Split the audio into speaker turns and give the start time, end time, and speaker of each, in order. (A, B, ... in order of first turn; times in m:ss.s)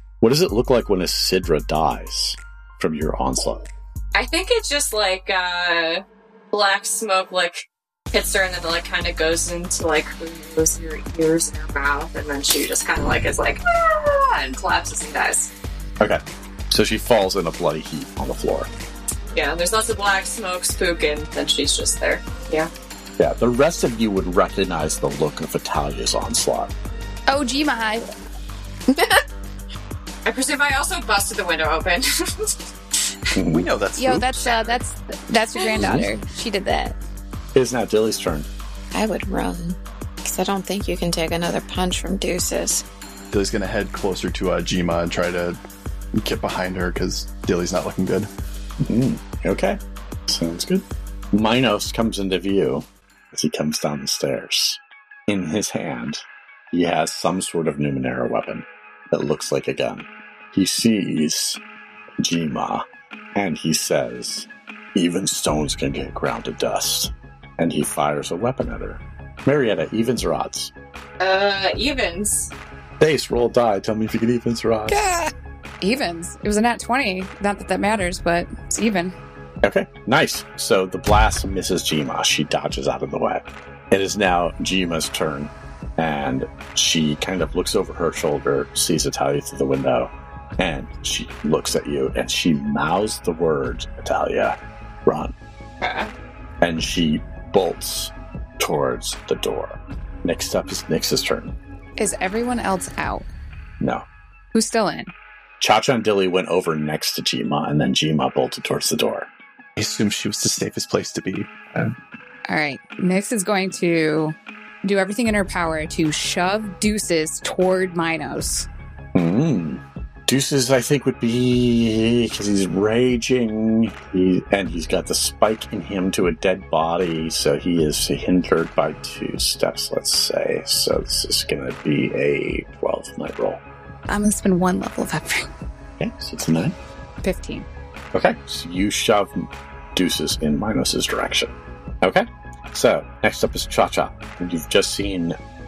0:00.2-0:03.7 A
0:04.2-0:15.5 B
0:16.0-0:18.7 A
0:19.3-0:22.7 B
0:23.2-0:26.7 A
0:27.3-0:28.1 C
0:28.9-0:29.2 D
0:30.2-0:33.1 B
0:33.4-0:33.7 A
0:33.5-0:34.3 E
0:34.0-0:37.0 C
0:34.4-0:34.7 B
0:35.6-0:35.8 B
0:35.8-0:36.1 A
0:37.6-0:38.5 A
0:38.9-0:42.8 D
0:43.3-0:45.6 E
0:46.2-0:48.3 E
0:48.8-1:01.6 A
1:02.2-1:02.8 A
1:03.4-1:10.7 A
1:11.2-1:12.5 B
1:13.0-1:15.2 A
1:14.9-1:19.2 C
1:19.6-1:35.3 A
1:35.8-1:36.1 B
1:36.6-1:41.5 A
1:42.0-1:43.3 C
1:44.5-1:45.1 C
1:45.6-1:49.3 A
1:49.8-1:52.0 E
1:52.5-1:58.7 C
1:59.2-2:13.6 A
2:14.1-2:15.5 C
2:16.0-2:16.8 A
2:17.2-2:17.7 C
2:18.1-2:25.4 A